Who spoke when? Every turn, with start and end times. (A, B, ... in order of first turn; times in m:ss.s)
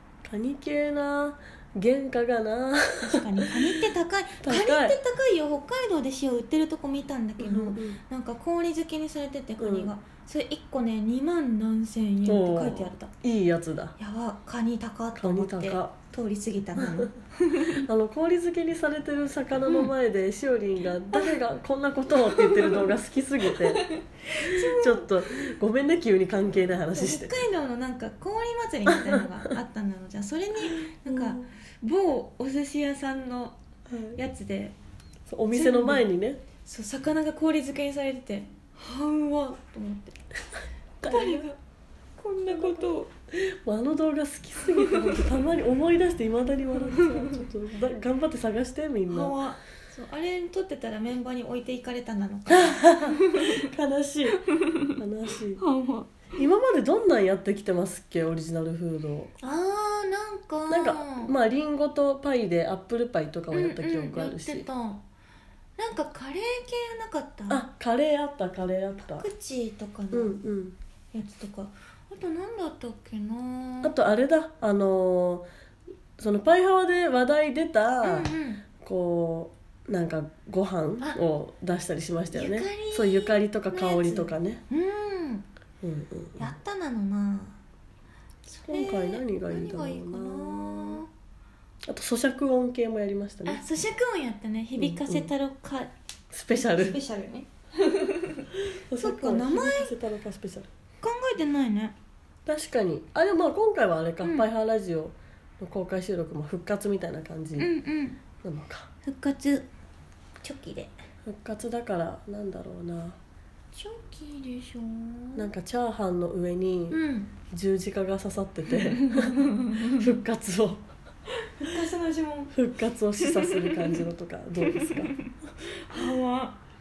0:00.2-0:03.6 A
0:03.0-0:13.1 B
0:04.4-0:05.0 A
0:07.4-0:08.0 A
0:09.6-0:09.9 A
0:12.2-0:14.0 A
0:14.0-0:17.8 B
0:15.2-0:16.0 A
0:16.8-0:17.2 A
0:17.7-0:23.9 A
0:19.7-0:19.9 B
0:22.4-0:22.8 B
0:23.8-0:25.1 B
0:24.4-0:27.4 A
0:27.0-0:33.6 B
0:28.9-0:29.3 A
0:30.7-0:31.5 A
0:33.9-0:34.2 A
0:34.2-0:34.8 B
0:35.3-0:36.4 A
0:35.5-0:36.1 B
0:36.7-0:40.2 B
0:41.0-0:41.5 A
0:41.0-0:41.6 B
0:42.2-0:43.1 B
0:42.5-0:49.4 A
0:46.9-0:47.4 B
0:49.1-0:53.6 B
0:52.5-0:54.4 A
0:54.5-0:54.9 B
0:55.0-0:55.6 A
0:55.6-0:56.1 B
0:56.3-0:59.3 A
0:59.4-1:01.3 B
1:00.7-1:04.7 A
1:03.5-1:05.0 B
1:05.8-1:07.6 B
1:07.5-1:09.3 A
1:09.2-1:10.4 B
1:10.1-1:10.8 A
1:11.1-1:13.9 B
1:13.8-1:15.5 A
1:16.2-1:24.6 A
1:18.0-1:18.6 B
1:22.3-1:25.5 B
1:25.8-1:26.5 A
1:26.4-1:27.6 B
1:28.5-1:31.1 B
1:28.7-1:31.0 A
1:31.9-1:33.6 A
1:33.5-1:35.9 B
1:34.8-1:35.3 A
1:36.3-1:37.0 A
1:36.5-1:38.5 B
1:38.7-1:40.7 A
1:39.0-1:40.0 B
1:41.0-1:42.0 B
1:42.5-1:47.7 A
1:47.6-1:48.2 B
1:48.4-1:48.9 A
1:49.0-1:49.7 B
1:50.4-1:51.0 B
1:51.2-1:53.2 A
1:53.7-1:55.5 B
1:55.4-1:57.0 A
1:56.9-1:57.3 B
1:57.5-2:00.9 A
1:59.0-2:00.0 B
2:01.6-2:02.5 B
2:02.5-2:05.1 A
2:03.2-2:04.0 B
2:04.6-2:06.6 B